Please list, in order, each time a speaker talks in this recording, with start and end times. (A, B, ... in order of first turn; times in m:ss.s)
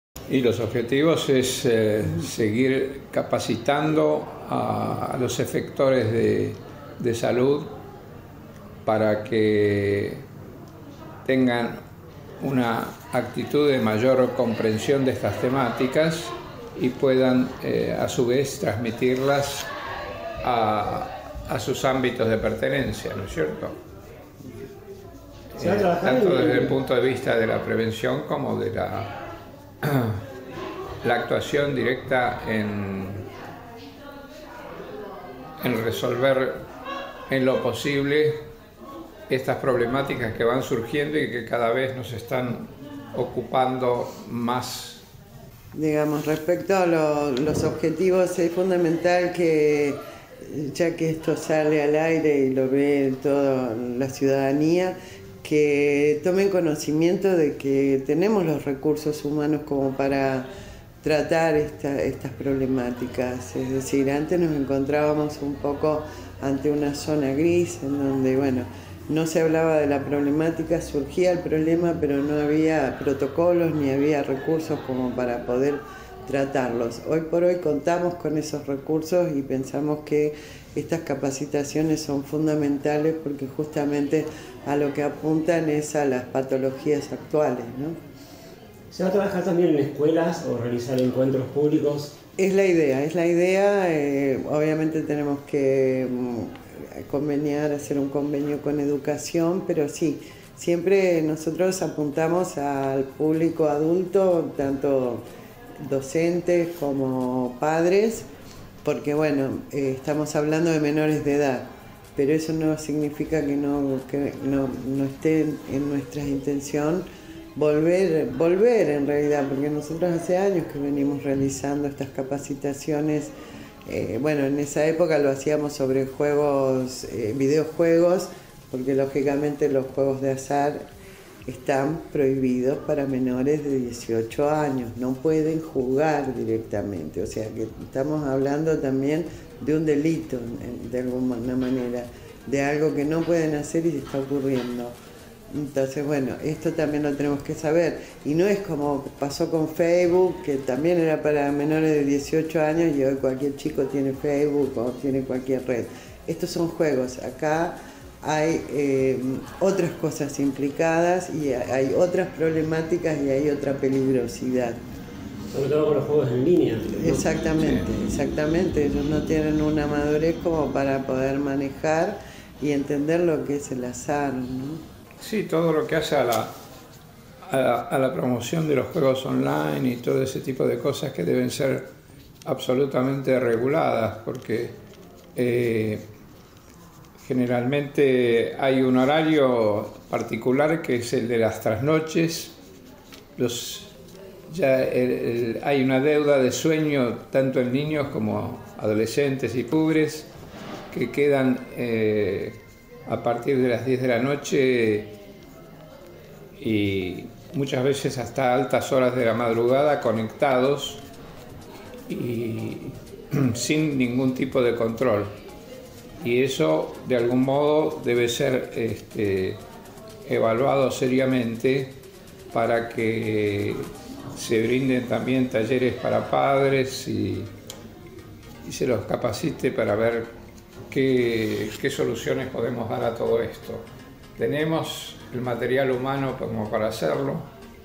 0:00.3-0:07.8 A
0:08.8-0:10.2 A
0:11.2-0:11.8 A
0:12.4-0:19.7 A
0:20.4-0:23.8 A
0:25.5-0:29.2 A
0:25.6-0:26.7 B
0:29.8-0:30.2 A
0:31.0-0:33.3 A
0:35.6-0:36.6 A
0:37.3-0:38.5 A
0:39.3-0:45.0 A
0:45.7-1:00.5 C
1:01.0-1:28.0 C
1:28.9-1:32.1 B
1:32.4-1:45.2 C
1:45.8-1:48.3 C
1:48.8-1:57.0 C
1:57.6-2:03.3 C
2:03.9-2:10.9 C
2:11.5-2:24.9 C
2:25.5-2:44.8 C
2:45.5-2:47.4 B
2:47.0-2:54.7 C
2:47.6-2:47.8 A
2:55.2-2:56.6 A
2:57.4-3:01.9 A
3:02.4-3:04.8 A
3:05.3-3:06.1 A
3:07.2-3:12.5 A
3:13.4-3:13.9 A
3:14.5-3:20.3 A
3:20.9-3:25.2 A
3:26.6-3:31.0 A
3:32.1-3:35.4 A
3:36.2-3:39.6 A
3:40.2-3:47.5 A
3:48.6-3:50.4 A
3:50.9-3:57.5 A